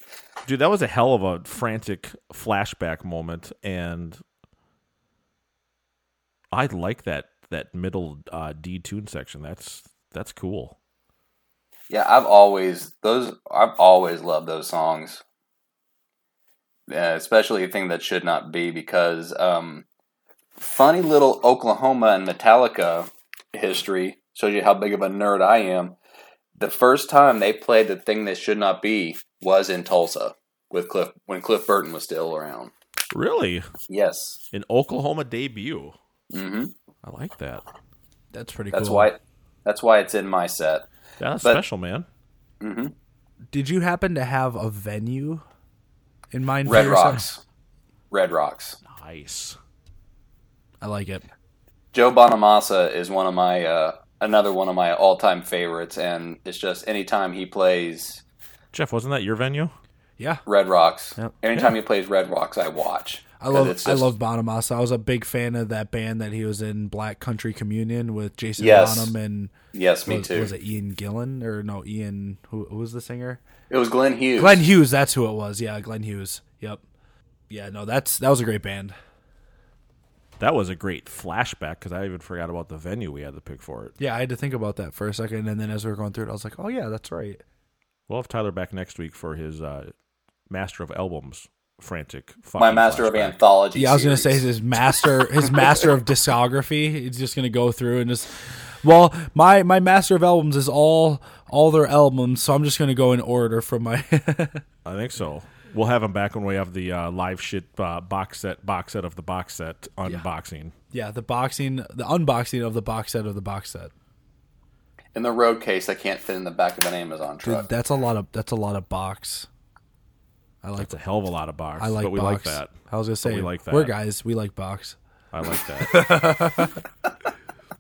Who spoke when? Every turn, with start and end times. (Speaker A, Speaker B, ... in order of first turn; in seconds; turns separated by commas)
Speaker A: 0.4-4.2, Speaker A: 6.5-10.8, Speaker B: 11.9-15.2, Speaker B: 16.9-19.8, Speaker B: 20.6-26.0, Speaker B: 26.6-32.7, Speaker A: 33.1-33.7, Speaker B: 33.9-34.4, Speaker A: 34.5-36.0, Speaker B: 36.3-36.7, Speaker A: 37.0-37.6, Speaker C: 38.3-39.1, Speaker B: 38.7-40.8, Speaker A: 41.2-42.1, Speaker B: 42.6-42.9, Speaker C: 43.5-45.4, Speaker C: 46.3-47.3, Speaker B: 46.6-47.4, Speaker B: 48.1-48.8, Speaker A: 48.8-49.6, Speaker C: 50.8-51.2, Speaker B: 51.9-58.2, Speaker A: 58.7-59.7, Speaker B: 60.5-64.1, Speaker C: 63.4-69.5, Speaker B: 68.6-69.1, Speaker B: 69.7-70.5, Speaker C: 70.1-73.4, Speaker B: 73.7-74.6, Speaker C: 74.4-76.8, Speaker C: 77.5-79.0, Speaker A: 80.4-84.0, Speaker C: 84.0-87.4, Speaker A: 88.1-89.9, Speaker A: 90.5-93.4, Speaker B: 92.6-94.5, Speaker C: 93.7-104.6, Speaker A: 104.8-110.7, Speaker C: 110.9-113.9, Speaker B: 115.1-117.7, Speaker C: 117.4-119.5, Speaker C: 120.6-121.0, Speaker A: 120.8-123.9, Speaker C: 121.8-125.0, Speaker A: 125.3-126.4, Speaker C: 125.8-126.8